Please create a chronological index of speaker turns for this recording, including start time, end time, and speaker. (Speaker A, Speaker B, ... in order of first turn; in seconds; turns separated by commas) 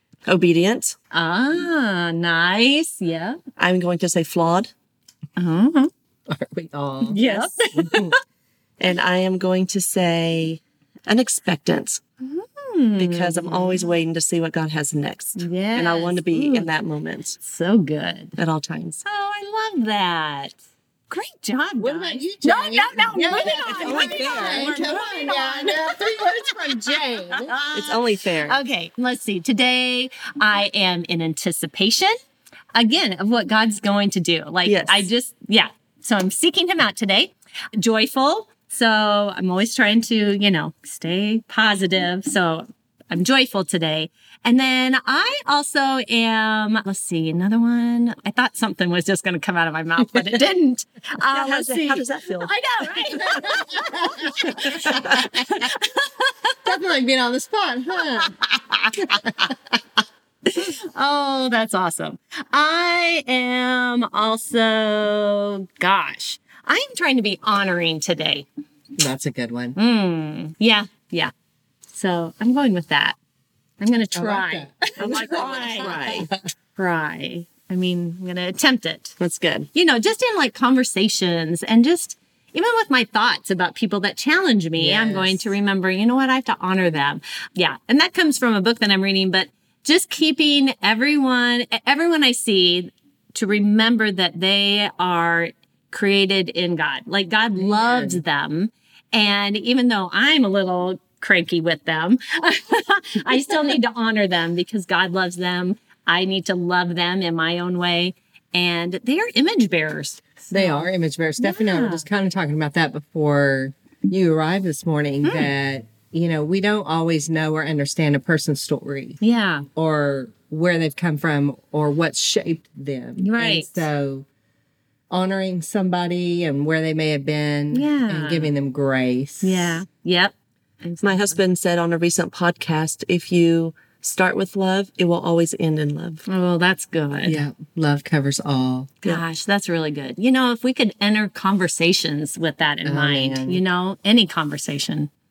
Speaker A: 0.2-0.9, Speaker B: 1.1-3.4, Speaker A: 3.6-4.7, Speaker B: 5.3-5.9, Speaker C: 6.3-8.1, Speaker B: 7.0-8.1, Speaker A: 8.8-12.0, Speaker B: 12.2-13.9, Speaker A: 13.0-17.4, Speaker B: 15.4-16.7, Speaker B: 17.4-18.4, Speaker A: 18.4-19.0, Speaker B: 19.0-20.6, Speaker B: 21.1-32.1, Speaker C: 21.8-27.6, Speaker A: 23.5-24.8, Speaker A: 27.7-28.6, Speaker B: 32.7-56.6, Speaker A: 34.6-35.1, Speaker A: 51.3-52.5, Speaker C: 53.1-55.7, Speaker A: 54.7-55.2, Speaker C: 56.6-58.4, Speaker C: 58.9-59.5, Speaker B: 60.5-68.5, Speaker C: 69.0-69.8, Speaker B: 69.8-71.3, Speaker B: 71.9-73.2, Speaker B: 73.8-79.2, Speaker C: 74.1-76.3, Speaker A: 75.0-76.3, Speaker A: 79.2-79.7, Speaker B: 79.7-110.9, Speaker C: 84.8-85.5, Speaker C: 97.5-98.2, Speaker C: 110.5-119.2, Speaker B: 111.4-112.0, Speaker B: 115.2-115.5, Speaker B: 119.2-119.7, Speaker C: 119.7-124.2, Speaker B: 123.2-123.9, Speaker C: 125.1-129.8, Speaker B: 127.7-128.5, Speaker B: 129.4-131.4, Speaker A: 131.0-136.2, Speaker B: 136.2-137.4, Speaker C: 137.2-138.9, Speaker B: 139.0-145.1, Speaker C: 142.8-143.6